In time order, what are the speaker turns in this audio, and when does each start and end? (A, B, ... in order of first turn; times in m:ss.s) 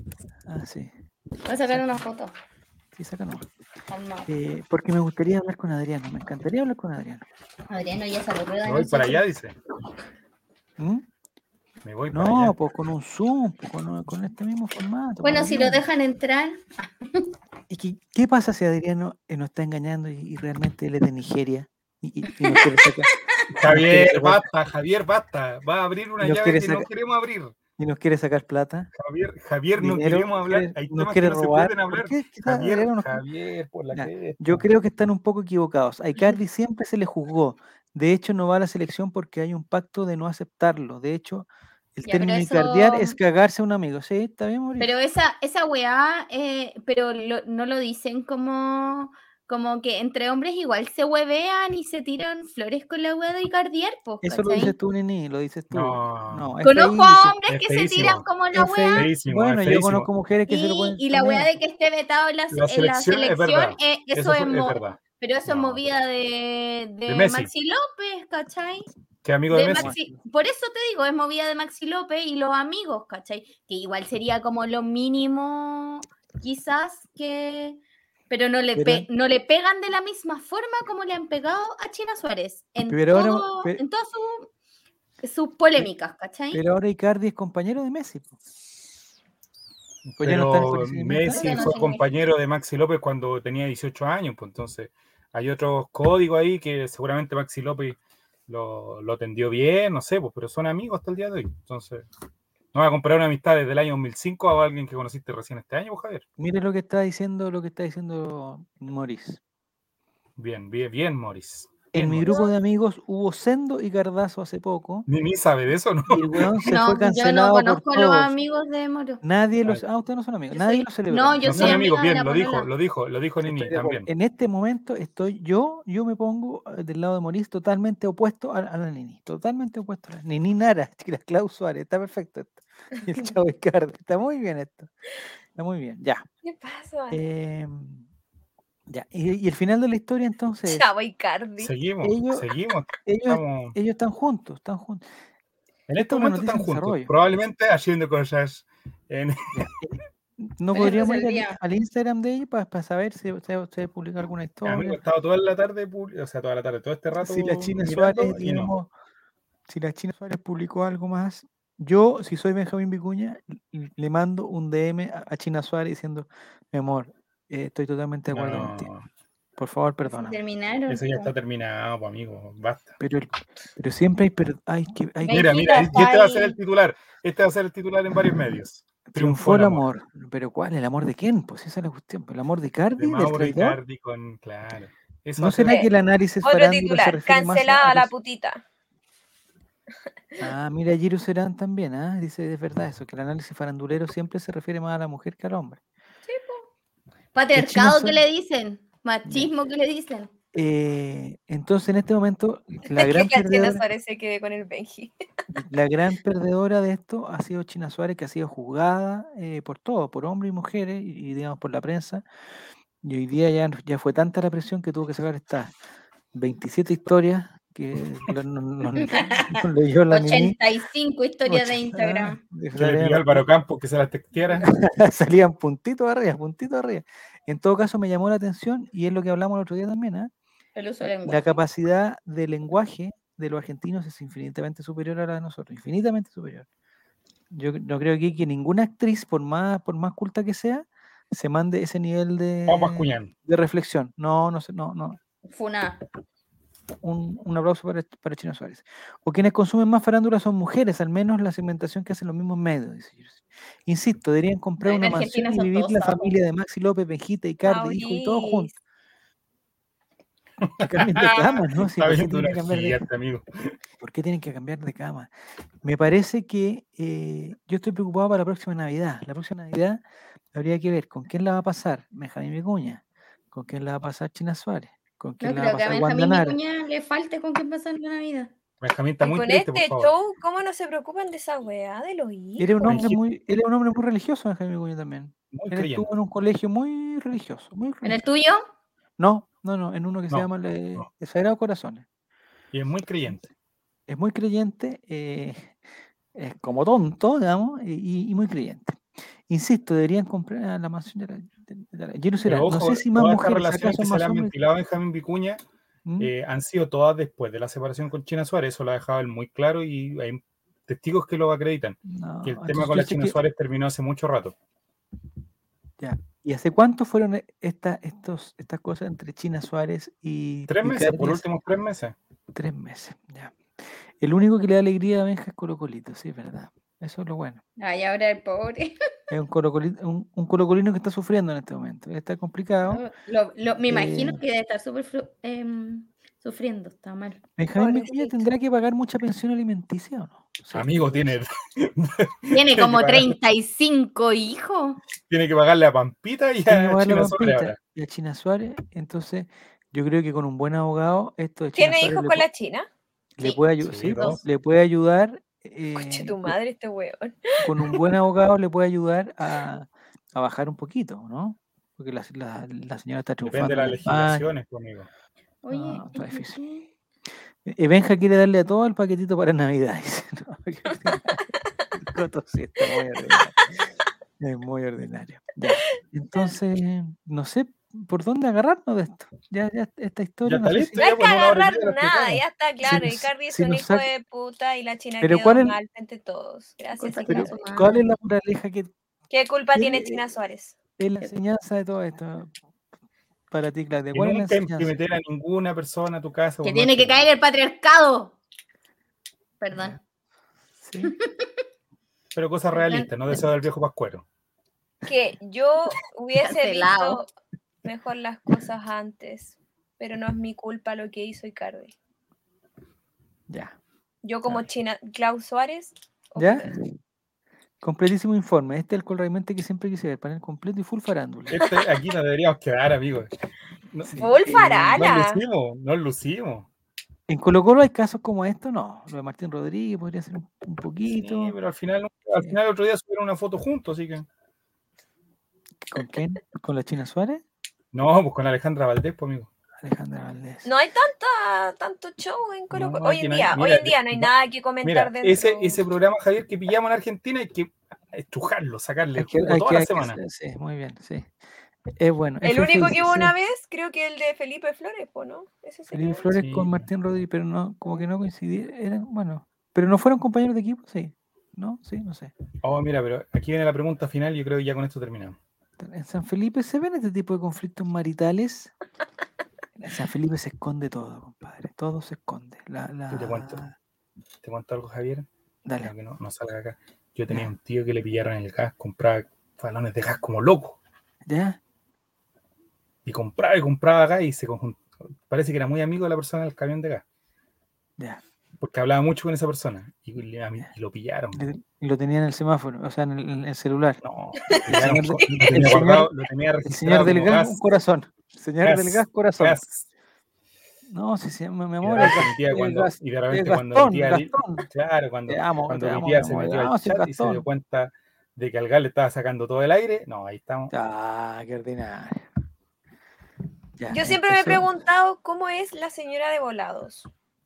0:00.4-0:00.9 A
0:01.4-0:02.3 B
0:01.7-0:02.0 A
0:02.9-0:03.4 A
0:03.9-0:04.3 B
0:04.3-0:07.2 A
0:07.7-0:09.2 B
0:08.6-0:09.5 C
0:10.8-0:11.0 A
0:11.8-0:12.6 C
0:12.1-0:15.8 A
0:15.2-0:17.3 B
0:17.7-0:24.4 A
0:22.4-0:22.8 B
0:23.5-0:27.6 C
0:26.2-0:26.9 A
0:27.8-0:28.9 A
0:28.9-0:34.6 C
0:29.8-0:33.2 A
0:33.9-0:44.9 A
0:42.1-0:43.2 B
0:44.8-0:54.7 B
0:54.2-0:57.4 A
0:55.7-0:56.6 C
0:56.6-0:59.1 B
0:57.5-0:58.2 C
0:58.5-1:01.5 A
0:58.9-1:00.1 C
1:00.5-1:08.9 B
1:02.5-1:05.8 C
1:07.1-1:07.5 C
1:09.2-1:09.9 C
1:09.5-1:24.5 B
1:09.7-1:10.2 A
1:18.7-1:19.1 A
1:22.9-1:23.8 A
1:25.2-1:26.6 B
1:26.5-1:28.3 A
1:30.0-1:42.0 C
1:30.2-1:31.7 A
1:31.3-1:32.0 B
1:42.7-1:46.2 C
1:46.4-1:49.4 A
1:50.4-1:52.3 C
1:51.9-1:55.1 A
1:55.1-1:56.5 C
1:56.1-1:58.3 A
1:56.7-1:59.2 B
1:59.2-2:01.9 A
2:00.5-2:02.7 B
2:01.4-2:04.1 C
2:03.4-2:14.9 A
2:15.6-2:16.2 A
2:16.4-2:17.2 D
2:17.1-2:18.0 A
2:18.9-2:20.9 A
2:20.7-2:21.7 D
2:21.6-2:23.8 C
2:22.0-2:22.5 A
2:23.0-2:25.0 A
2:25.9-2:29.6 C
2:26.0-2:27.1 A
2:29.5-2:35.0 A
2:30.7-2:31.6 B
2:34.6-2:38.7 C
2:37.2-2:38.9 A
2:39.7-2:48.9 A
2:48.3-2:49.0 C
2:49.6-2:50.4 A
2:50.1-2:51.3 B
2:50.9-2:53.0 C
2:53.0-2:56.0 A
2:55.2-2:56.6 B
2:55.3-2:59.8 C
2:59.1-3:03.8 A
3:03.0-3:05.8 C
3:05.4-3:08.1 A
3:06.4-3:08.6 D
3:10.4-3:15.8 A
3:16.3-3:16.6 D
3:17.3-3:20.3 B
3:17.5-3:18.2 A
3:19.2-3:19.5 A
3:20.5-3:23.8 A
3:22.9-3:25.1 D
3:25.5-3:32.2 A
3:33.0-3:35.7 A
3:36.3-3:40.6 A
3:39.1-3:42.4 B
3:41.4-3:43.4 A
3:42.7-3:44.7 C
3:44.6-3:50.3 A
3:50.8-3:51.6 B
3:51.2-3:56.6 A
3:57.5-4:05.2 A
4:02.7-4:03.3 C
4:05.5-4:06.0 B
4:07.0-4:18.7 A
4:14.8-4:16.3 B
4:17.6-4:18.7 D
4:20.6-4:23.7 C
4:20.8-4:23.0 A
4:24.0-4:25.3 A
4:25.8-4:30.0 A
4:30.5-4:36.6 A
4:35.4-4:38.5 B
4:38.8-4:40.1 C
4:39.2-4:43.0 D
4:42.6-4:48.2 A
4:42.8-4:43.2 C
4:45.5-4:46.1 C
4:48.0-4:48.6 B
4:49.2-4:52.0 A
4:50.3-4:51.1 C
4:52.7-4:53.5 C
4:54.1-4:55.7 A
4:56.3-4:59.0 A
4:59.5-5:04.5 A
5:02.4-5:05.6 C
5:06.0-5:06.3 A
5:06.2-5:14.5 C
5:12.1-5:13.4 A
5:16.0-5:21.4 A
5:20.7-5:22.1 C
5:22.5-5:23.6 A
5:24.2-5:27.6 A
5:27.8-5:28.9 B
5:29.3-5:33.0 A
5:32.9-5:37.4 B
5:33.8-5:34.4 A
5:37.6-5:41.4 A
5:37.8-5:38.4 D
5:40.7-5:43.4 C
5:42.5-5:45.0 B
5:45.3-5:47.8 C
5:46.6-5:52.4 A
5:51.8-5:52.9 D
5:53.4-5:56.6 A
5:53.8-5:54.4 C
5:55.9-5:58.0 D
5:57.6-6:04.4 A
6:03.4-6:05.1 C
6:05.6-6:06.8 B
6:05.7-6:06.6 A
6:07.6-6:11.4 A
6:12.0-6:13.6 A
6:14.4-6:21.1 A
6:20.4-6:22.4 C
6:21.0-6:27.6 D
6:22.8-6:24.1 A
6:25.2-6:25.8 A
6:27.0-6:28.0 B
6:27.2-6:28.9 A
6:29.3-6:30.7 D
6:29.7-6:30.2 A
6:31.0-6:32.5 A
6:33.5-6:34.9 A
6:34.1-6:37.3 C
6:36.6-6:38.3 B
6:39.6-6:40.0 B
6:39.7-6:40.0 A
6:40.8-6:41.1 A
6:41.0-6:41.5 B
6:42.3-6:44.2 C
6:42.7-6:43.1 B
6:45.0-6:47.3 D
6:46.4-6:47.2 B
6:47.8-6:51.9 D
6:53.5-6:53.8 A
6:54.2-6:56.7 D
6:56.4-6:56.9 A
6:57.8-7:01.6 A
7:01.5-7:03.3 C
7:03.9-7:04.3 C
7:04.1-7:05.1 A
7:04.2-7:05.4 D
7:05.0-7:06.7 C
7:07.3-7:11.6 A
7:11.1-7:14.2 C
7:15.8-7:17.4 A
7:17.9-7:19.5 C
7:19.8-7:20.7 A
7:20.6-7:25.8 D
7:22.7-7:24.3 C
7:24.8-7:30.2 C
7:29.1-7:31.3 A
7:32.0-7:33.3 A
7:32.4-7:36.3 D
7:35.9-7:42.3 A
7:36.4-7:36.8 C
7:42.6-7:45.4 C
7:45.8-7:48.7 A
7:49.8-7:53.7 A
7:53.1-7:53.6 C
7:54.4-7:55.3 C
7:55.6-7:55.9 A
7:55.8-8:00.8 C
8:01.2-8:01.6 A
8:03.0-8:07.0 C
8:08.6-8:11.4 C
8:11.3-8:14.0 A
8:14.0-8:17.6 C
8:14.5-8:15.4 D
8:14.7-8:16.1 A
8:16.6-8:19.6 A
8:18.6-8:19.8 C
8:20.8-8:24.6 A
8:21.8-8:30.7 C
8:25.3-8:27.4 A
8:30.7-8:32.3 A
8:33.8-8:34.8 A
8:33.9-8:37.1 D